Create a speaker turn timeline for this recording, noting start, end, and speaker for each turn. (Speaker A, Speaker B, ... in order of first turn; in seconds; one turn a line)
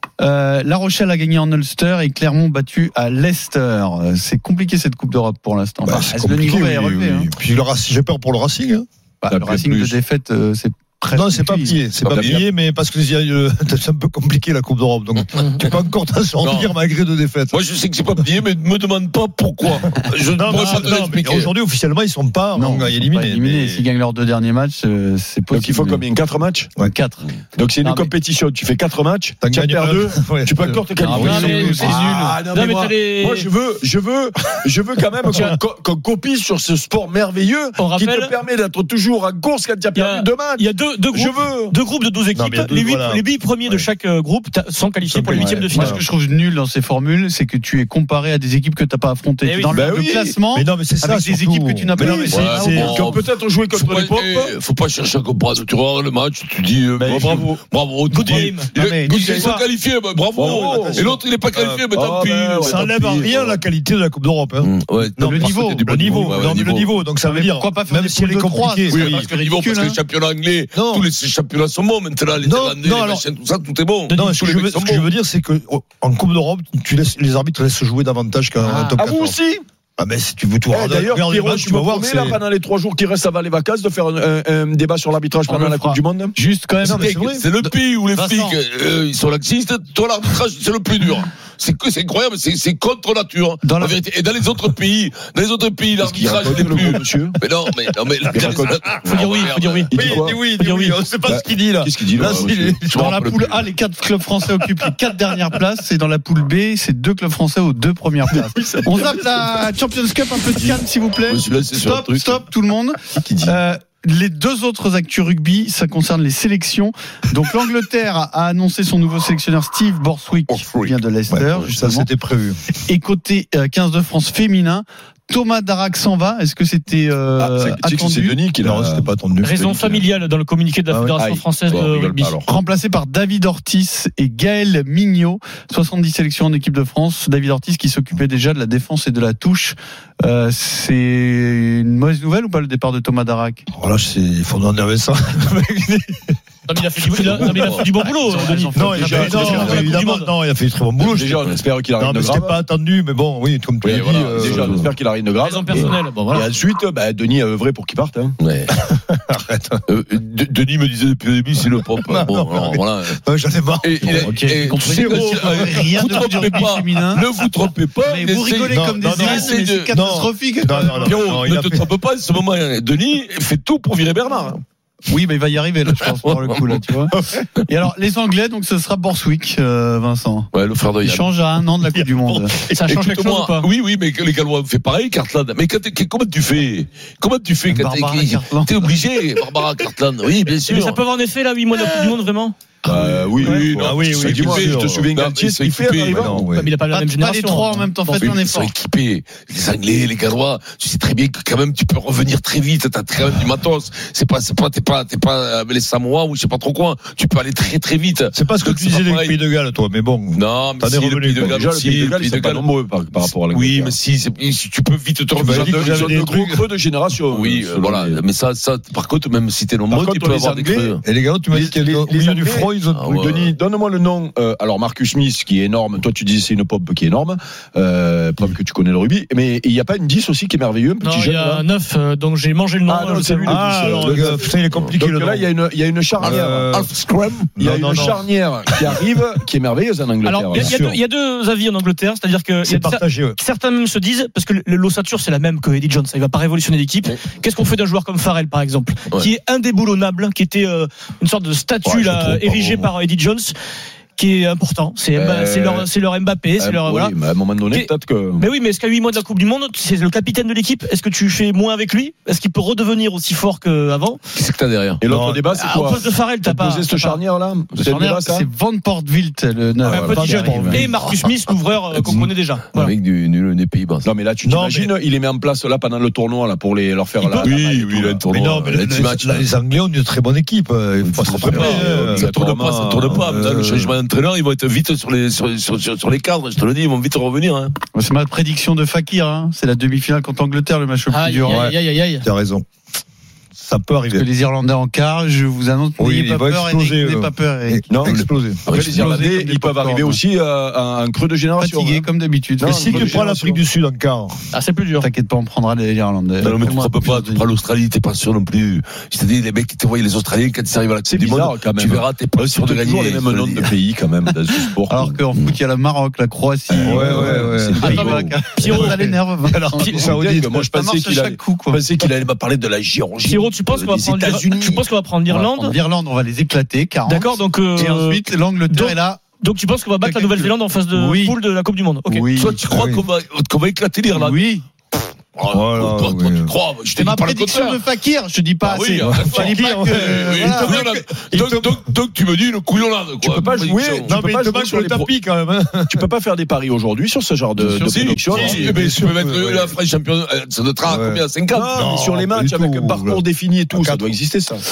Speaker A: 0.2-7.3
Speaker B: 5.8-8.8
Speaker A: 9.2-11.8
Speaker C: 9.3-10.0
Speaker B: 11.1-17.6
Speaker D: 12.0-12.4
Speaker D: 16.4-16.8
Speaker D: 17.5-21.5
Speaker B: 19.8-23.8
Speaker A: 22.5-26.0
Speaker C: 25.5-26.7
Speaker A: 26.8-27.3
Speaker C: 27.6-41.8
Speaker A: 27.8-28.1
Speaker B: 29.4-31.5
Speaker A: 30.9-32.4
Speaker E: 31.1-33.5
Speaker E: 37.8-38.4
Speaker E: 39.9-46.0
Speaker B: 42.3-43.9
Speaker B: 45.0-46.0
Speaker A: 45.3-52.9
Speaker E: 49.4-49.8
Speaker C: 49.7-50.4
Speaker B: 50.5-53.1
Speaker D: 52.3-63.5
Speaker C: 52.8-54.6
Speaker A: 57.0-57.6
Speaker E: 58.1-58.7
Speaker A: 58.7-59.7
Speaker C: 59.2-59.5
Speaker C: 60.3-61.1
Speaker A: 60.4-61.1
Speaker B: 61.0-69.3
Speaker C: 61.9-63.6
Speaker D: 64.6-66.9
Speaker A: 65.2-66.6
Speaker A: 67.2-70.0
Speaker D: 68.9-75.1
Speaker B: 70.7-71.1
Speaker B: 72.4-73.3
Speaker B: 74.1-79.3
Speaker A: 78.6-79.0
Speaker C: 79.0-79.6
Speaker B: 80.0-82.4
Speaker C: 80.7-86.3
Speaker A: 85.5-88.6
Speaker D: 86.8-99.9
Speaker A: 93.6-94.0
Speaker C: 96.0-97.4
Speaker C: 98.3-98.9
Speaker E: 99.0-101.0
Speaker C: 99.9-100.4
Speaker B: 99.9-103.2
Speaker C: 101.2-102.8
Speaker D: 102.3-103.7
Speaker A: 102.9-122.1
Speaker C: 108.3-109.3
Speaker D: 111.3-112.4
Speaker C: 113.2-113.6
Speaker D: 120.5-121.0
Speaker B: 121.3-122.6
Speaker A: 122.8-128.4
Speaker C: 127.4-129.1
Speaker B: 128.6-129.6
Speaker E: 129.4-132.3
Speaker C: 129.6-130.0
Speaker B: 130.9-131.2
Speaker C: 131.2-132.5
Speaker A: 132.4-143.6
Speaker B: 143.7-146.4
Speaker E: 146.7-150.3
Speaker B: 147.1-147.6
Speaker D: 147.2-148.0
Speaker A: 148.2-149.9
Speaker B: 148.7-151.4
Speaker C: 148.9-149.8
Speaker C: 151.0-152.6
Speaker B: 152.0-154.9
Speaker C: 153.8-158.3
Speaker D: 153.9-154.9
Speaker E: 155.4-156.5
Speaker D: 158.4-158.7
Speaker B: 158.7-159.8
Speaker D: 159.9-163.2
Speaker B: 161.7-166.6
Speaker D: 163.8-169.9
Speaker A: 164.0-167.3
Speaker A: 168.0-171.2
Speaker B: 168.7-171.9
Speaker D: 170.7-174.6
Speaker A: 175.1-180.5
Speaker D: 175.8-177.7
Speaker D: 180.5-181.3
Speaker A: 181.0-182.5
Speaker B: 181.9-182.8
Speaker E: 182.7-183.7
Speaker D: 182.8-191.0
Speaker A: 187.7-188.9
Speaker E: 190.7-192.6
Speaker D: 192.8-196.4
Speaker C: 192.8-196.6
Speaker B: 193.4-195.1
Speaker B: 196.0-196.7
Speaker E: 196.6-198.4
Speaker A: 196.9-198.7
Speaker D: 198.2-209.4
Speaker B: 208.3-211.5
Speaker D: 210.3-216.3
Speaker C: 211.4-214.0
Speaker B: 215.3-216.6
Speaker C: 215.4-218.2
Speaker D: 217.3-221.0
Speaker C: 219.9-231.7
Speaker B: 221.0-223.3
Speaker D: 222.8-223.5
Speaker E: 231.0-234.2
Speaker C: 232.9-236.9
Speaker B: 233.4-235.5
Speaker B: 236.2-238.3
Speaker D: 236.2-237.5
Speaker C: 237.6-240.8
Speaker E: 240.2-253.5
Speaker B: 240.5-241.0
Speaker B: 242.6-243.4
Speaker B: 251.8-252.9
Speaker E: 254.2-257.1
Speaker C: 255.1-255.9
Speaker C: 256.6-258.5
Speaker E: 257.7-264.2
Speaker D: 264.3-265.0
Speaker C: 265.0-268.5
Speaker B: 265.1-265.4
Speaker E: 265.5-267.2
Speaker A: 267.8-270.9
Speaker E: 269.8-272.9
Speaker C: 269.9-270.1
Speaker B: 270.0-271.0
Speaker D: 270.8-271.3
Speaker B: 272.0-272.3
Speaker D: 272.7-274.1
Speaker C: 274.0-278.2
Speaker B: 274.4-274.9
Speaker D: 277.2-279.5
Speaker B: 278.2-284.0
Speaker D: 281.0-287.8
Speaker C: 281.4-283.4
Speaker A: 287.9-291.6
Speaker E: 291.1-292.2
Speaker B: 291.4-292.6
Speaker B: 293.6-294.2
Speaker A: 294.1-298.1
Speaker B: 296.0-298.6
Speaker C: 297.9-302.1
Speaker D: 298.7-299.2
Speaker A: 298.9-300.2
Speaker A: 301.6-303.2
Speaker C: 302.6-303.6
Speaker B: 302.6-304.4
Speaker E: 304.5-305.1
Speaker A: 305.0-307.5
Speaker D: 306.4-313.8
Speaker C: 311.1-315.2
Speaker A: 314.9-321.8
Speaker C: 316.7-318.4
Speaker B: 316.8-320.6
Speaker E: 317.8-319.0
Speaker C: 319.8-324.8
Speaker E: 323.2-325.7
Speaker A: 325.3-329.2
Speaker E: 327.0-332.3
Speaker A: 330.0-331.4
Speaker A: 332.1-332.5
Speaker B: 332.2-333.0
Speaker D: 332.3-334.5
Speaker A: 334.1-334.6
Speaker D: 335.3-337.8
Speaker B: 335.5-336.6
Speaker A: 336.9-340.9
Speaker D: 338.6-344.2
Speaker B: 339.0-341.9
Speaker C: 343.2-345.1
Speaker B: 344.0-346.1
Speaker C: 345.9-348.8
Speaker A: 347.6-347.9
Speaker D: 347.8-351.8
Speaker B: 348.3-349.8
Speaker B: 350.9-354.2
Speaker C: 351.5-354.6